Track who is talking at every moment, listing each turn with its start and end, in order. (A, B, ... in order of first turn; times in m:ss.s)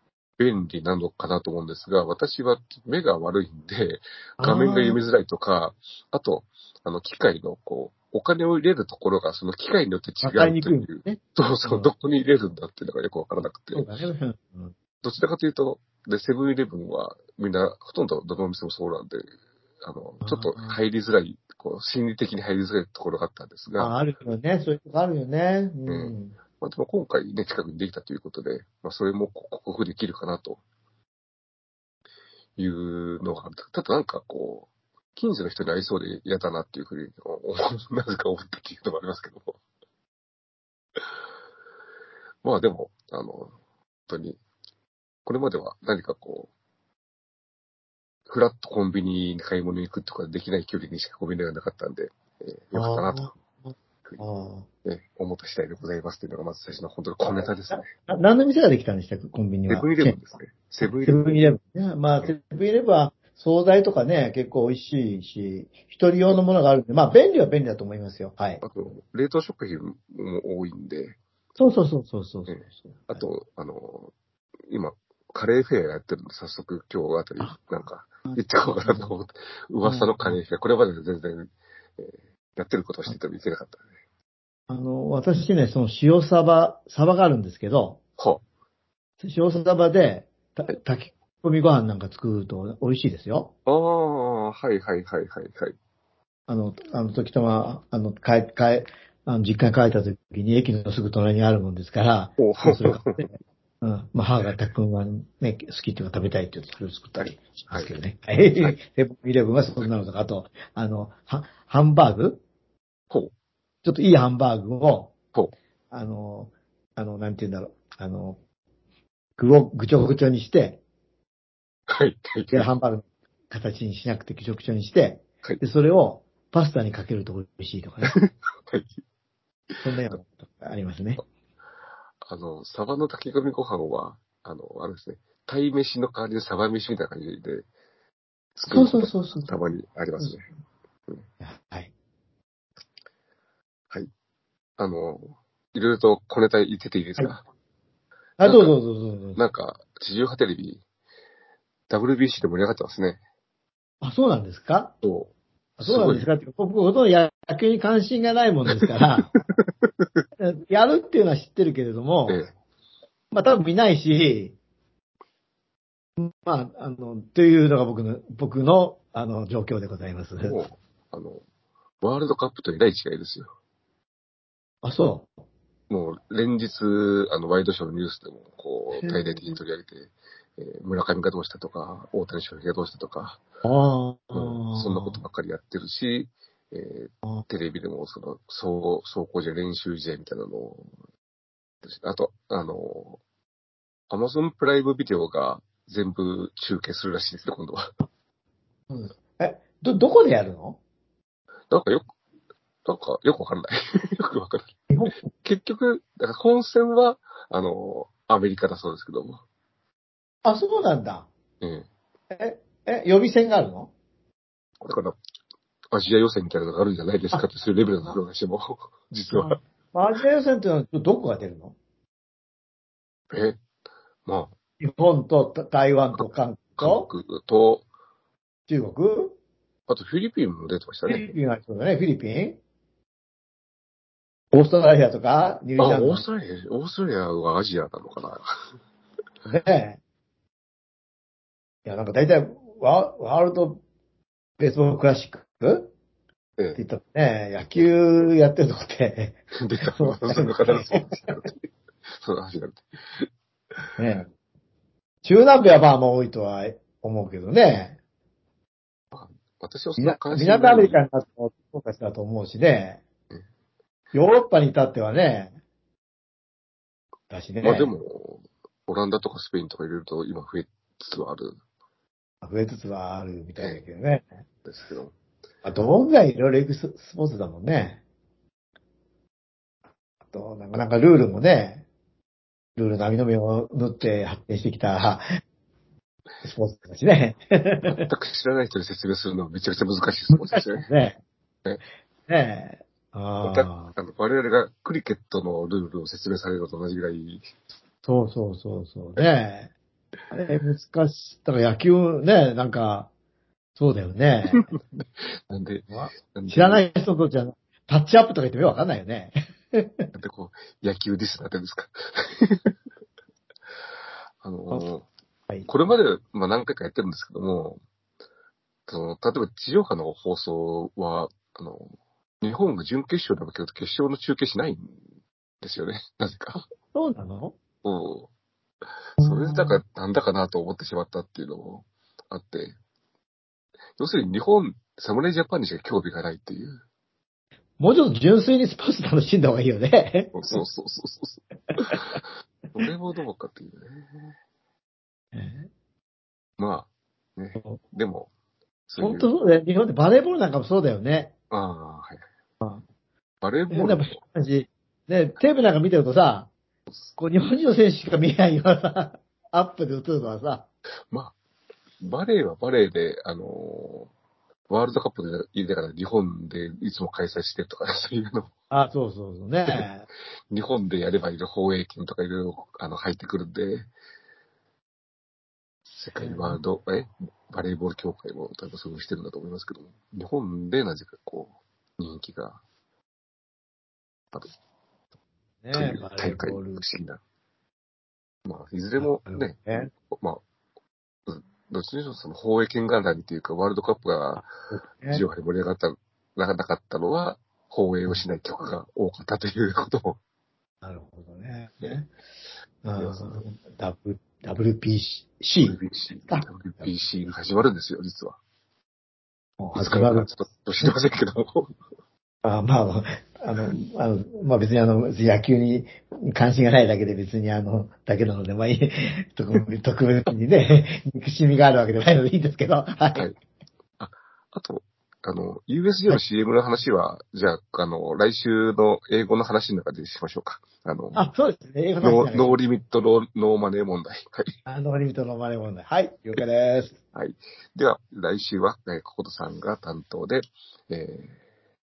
0:00.4-0:13.9 A
0:04.4-0:05.0 B
0:10.2-0:11.9 B
0:13.7-0:14.7 B
0:15.0-0:19.2 A
0:19.8-0:23.9 A
0:20.2-0:20.8 B
0:23.8-0:26.4 B
0:25.9-0:30.6 A
0:32.6-0:39.6 A
0:42.4-0:43.5 A
0:44.1-0:44.4 A
0:45.2-0:46.5 A
0:48.3-0:53.3 A
0:52.7-0:54.7 B
0:54.8-0:57.9 A
0:57.2-1:00.2 B
0:59.7-1:01.4 A
1:00.8-1:08.6 B
1:08.6-1:11.2 A
1:11.6-1:13.2 B
1:12.5-1:14.1 A
1:14.7-1:23.8 A
1:18.2-1:19.2 B
1:19.8-1:20.4 B
1:24.7-1:28.0 B
1:29.2-1:33.5 B
1:33.6-1:35.7 A
1:36.5-1:52.4 B
1:42.4-1:43.2 A
1:47.2-1:47.9 A
1:53.8-1:55.1 B
1:55.9-1:58.4 B
1:59.4-2:00.8 B
2:01.9-2:02.7 A
2:02.5-2:08.2 B
2:08.0-2:09.0 A
2:09.8-2:11.2 B
2:12.2-2:17.6 A
2:18.6-2:20.5 A
2:18.7-2:19.6 B
2:21.4-2:21.9 B
2:24.8-2:27.4 A
2:28.4-2:29.4 B
2:28.4-2:28.7 A
2:29.4-2:30.8 A
2:31.9-2:33.2 A
2:34.0-2:34.9 B
2:35.0-2:36.3 A
2:35.8-2:39.3 B
2:40.4-2:42.4 B
2:43.3-2:44.6 B
2:46.2-2:50.6 B
2:50.4-2:51.4 A
2:52.0-2:53.5 A
2:54.8-2:55.3 B
2:55.9-3:03.4 A
2:58.9-2:59.6 B
3:03.6-3:05.2 B
3:04.3-3:10.9 A
3:11.8-3:13.2 A
3:14.1-3:17.9 A
3:18.9-3:20.8 B
3:21.7-3:22.1 A
3:22.8-3:29.4 A
3:24.9-3:25.2 B
3:30.4-3:31.3 B
3:31.6-3:31.9 A
3:32.3-3:33.9 B
3:34.8-3:35.2 A
3:35.9-3:39.6 A
3:39.3-3:41.8 B
3:43.3-3:43.6 A
3:44.2-3:44.5 A
3:44.8-3:47.1 B
3:46.8-3:47.8 A
3:48.7-3:49.4 B
3:49.9-3:51.3 A
3:51.0-3:52.6 B
3:54.5-3:56.2 B
3:55.8-3:58.5 A
3:59.4-4:00.0 B
4:01.8-4:03.8 B
4:04.6-4:05.9 B
4:06.7-4:11.4 B
4:09.6-4:11.5 A
4:12.2-4:13.3 A
4:14.0-4:14.3 B
4:15.2-4:18.0 B
4:19.1-4:21.0 A
4:20.0-4:23.0 B
4:24.1-4:25.6 B
4:27.3-4:27.9 B
4:27.6-4:31.6 A
4:32.4-4:34.3 B
4:33.6-4:33.8 A
4:34.6-4:35.1 A
4:35.6-4:38.0 B
4:40.3-4:41.8 B
4:42.8-4:45.2 B
4:46.4-4:48.0 B
4:47.8-4:50.9 A
4:50.3-4:51.2 B
4:52.3-4:53.9 B
4:53.4-4:57.4 A
4:58.0-4:59.7 B
5:00.3-5:03.1 B
5:03.8-5:04.7 B
5:04.5-5:06.9 A
5:05.9-5:10.1 B
5:10.1-5:12.7 A
5:14.4-5:15.1 A
5:15.6-5:17.8 A
5:18.9-5:25.0 A
5:25.6-5:26.6 A
5:26.9-5:27.6 B
5:27.8-5:28.3 A
5:29.2-5:29.8 B
5:29.2-5:32.8 A
5:34.0-5:36.8 A
5:37.8-5:40.6 B
5:40.3-5:42.0 A
5:41.8-5:42.2 B
5:42.8-5:44.3 A
5:45.3-5:45.7 B
5:46.6-5:48.3 A
5:48.9-5:49.3 A
5:49.0-5:51.3 B
5:51.5-5:52.2 A
5:53.4-5:54.2 A
5:53.7-5:56.5 B
5:57.2-6:00.7 B
6:02.0-6:04.1 A
6:04.7-6:08.5 A
6:08.7-6:10.1 B
6:10.5-6:13.9 A
6:15.9-6:22.6 A
6:16.2-6:16.6 B
6:25.6-6:26.8 B
6:25.7-6:27.2 A
6:28.4-6:29.6 A
6:29.0-6:29.9 B
6:30.1-6:30.4 A
6:31.3-6:34.5 A
6:34.7-6:35.2 B
6:35.1-6:40.2 A
6:40.8-6:42.1 B
6:42.8-6:46.9 B
6:43.0-6:43.4 A
6:45.6-6:48.4 A
6:49.6-6:50.3 B
6:49.8-6:51.7 A
6:52.4-7:03.3 B
7:04.0-7:11.2 A
7:11.1-7:12.6 B
7:12.0-7:14.5 A
7:14.6-7:17.0 B
7:17.1-7:21.4 A